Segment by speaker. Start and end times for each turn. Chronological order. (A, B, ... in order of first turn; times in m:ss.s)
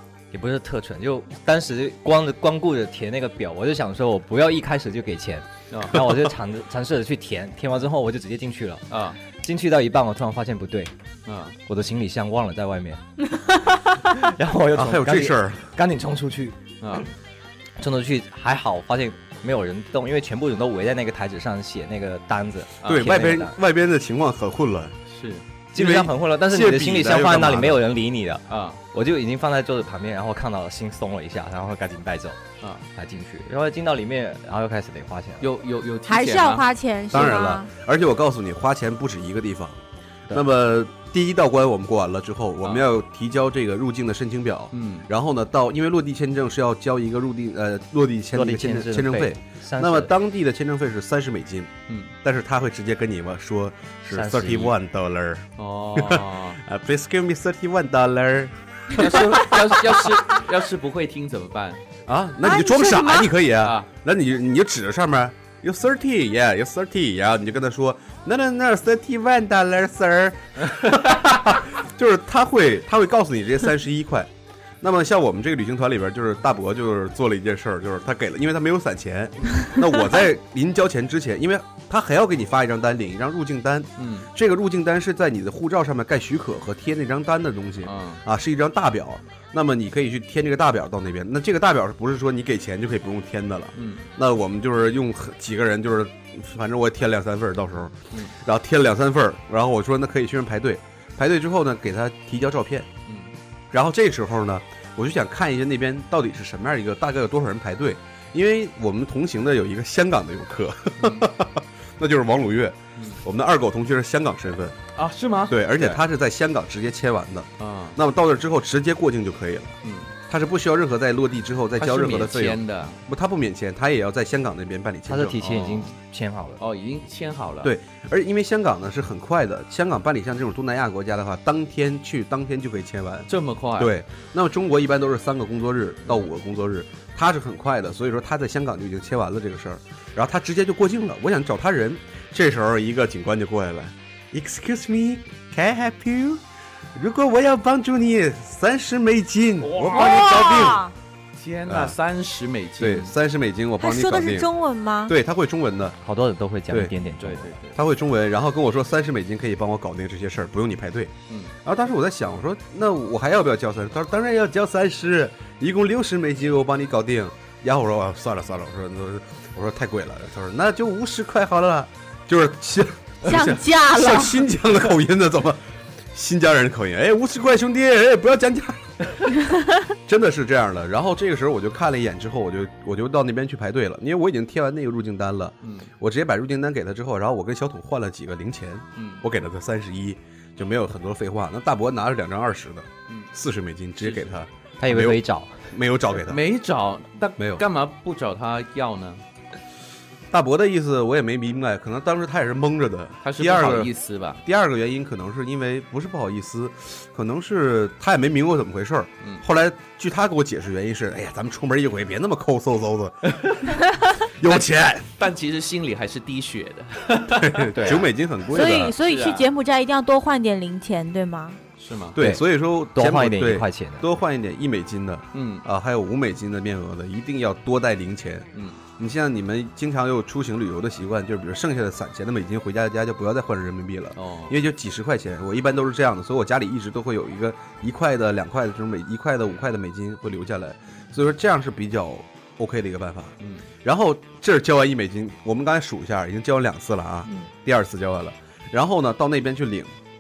0:00.3-0:10.9 A
0:05.7-0:06.0 B
0:08.9-0:09.2 B
0:11.3-0:11.6 B
0:11.7-0:13.0 A
0:14.0-0:16.6 A
0:14.7-0:15.7 C
0:16.8-0:17.1 B
0:17.8-0:23.6 A
0:22.8-0:23.1 B
0:22.8-0:25.0 C
0:25.1-0:25.4 B
0:25.7-0:32.4 A
0:25.8-0:27.8 C
0:28.5-0:28.8 B
0:32.6-0:32.9 B
0:32.9-0:35.5 A
0:35.4-0:37.3 B
0:36.1-0:37.7 D
0:37.1-1:00.2 C
0:44.7-0:45.1 B
0:48.3-0:50.1 A
0:51.9-0:52.1 B
0:54.1-0:54.8 A
0:55.6-0:56.6 B
0:58.9-1:01.8 B
1:02.1-1:42.9 C
1:02.4-1:03.3 D
1:03.6-1:03.9 B
1:10.8-1:11.4 B
1:24.0-1:24.3 B
1:27.8-1:28.2 B
1:33.8-1:34.1 B
1:43.1-1:43.3 B
1:43.7-1:54.8 C
1:51.0-1:51.3 B
1:55.0-1:56.0 B
1:55.5-2:05.4 C
1:57.6-1:58.0 B
1:59.8-2:00.1 B
2:01.8-2:03.0 B
2:05.1-2:06.6 A
2:05.4-2:05.9 B
2:06.6-2:07.7 B
2:07.6-2:26.4 C
2:13.3-2:14.0 B
2:26.9-2:30.8 C
2:29.6-2:30.8 B
2:29.9-2:30.9 D
2:31.4-2:33.1 B
2:31.7-2:32.0 C
2:32.8-2:34.5 C
2:33.8-2:35.2 D
2:35.1-2:36.0 C
2:36.0-2:37.6 A
2:37.2-2:37.8 B
2:37.8-2:59.3 C
2:41.3-2:41.5 B
2:53.2-2:54.5 D
3:00.1-3:16.4 C
3:05.6-3:05.9 B
3:09.0-3:09.2 B
3:14.0-3:14.4 B
3:14.8-3:15.6 A
3:16.2-3:19.2 B
3:17.4-3:17.6 C
3:20.3-3:23.9 C
3:23.2-3:24.4 B
3:24.4-3:33.4 C
3:33.2-3:39.5 B
3:34.2-3:35.1 C
3:37.4-3:39.0 C
3:37.7-3:38.1 A
3:38.5-3:41.6 D
3:41.8-3:42.2 B
3:42.1-4:09.9 C
3:42.2-3:44.1 A
3:45.3-3:45.6 B
3:48.5-3:48.8 B
3:54.2-3:54.6 B
4:03.4-4:03.7 B